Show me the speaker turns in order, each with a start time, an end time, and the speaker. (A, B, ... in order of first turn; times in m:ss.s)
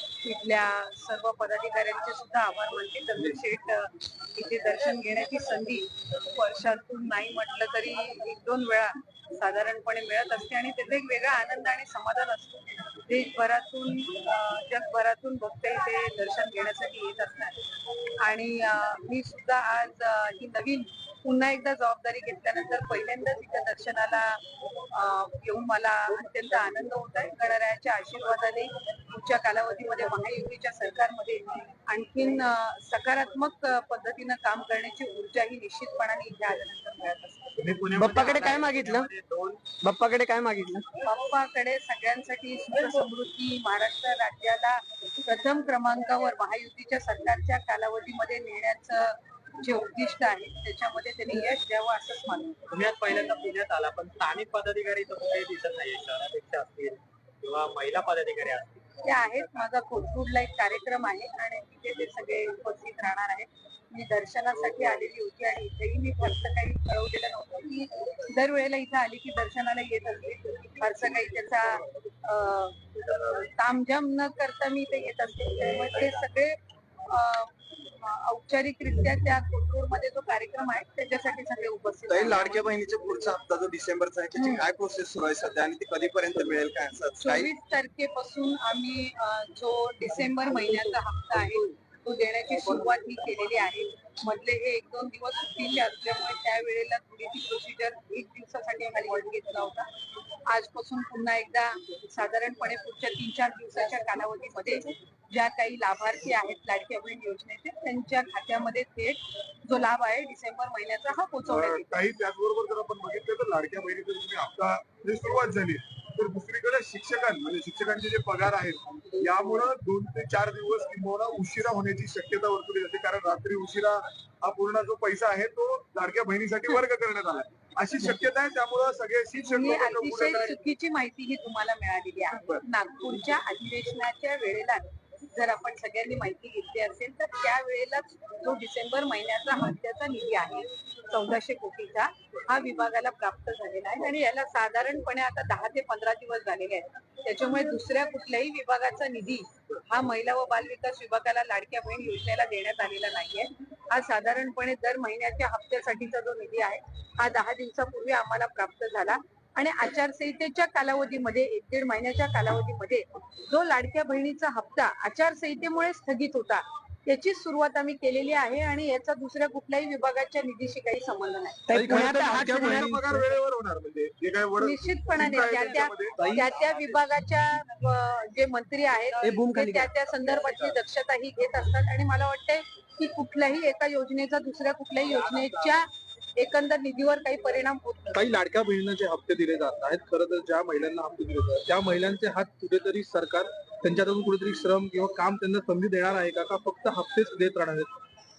0:00.2-0:17.6 A
0:18.2-0:37.5 A
0:37.6-0:39.7 B
0:37.9-0:39.1 C
0:39.8-0:40.9 C
0:41.0-0:52.7 A
0:52.7-0:58.8 B
0:59.0-1:22.7 A
1:22.1-1:27.5 D
1:24.4-1:24.6 A
1:27.2-1:39.9 A
1:40.5-1:51.9 A
1:51.4-2:10.6 E
2:09.4-2:51.6 A
2:12.3-2:12.6 E
2:51.7-2:53.1 C
2:51.7-2:52.8 F
2:51.9-2:56.2 E
2:54.6-3:08.3 A
2:56.2-2:56.4 C
2:59.2-2:59.9 C
3:08.1-3:17.9 F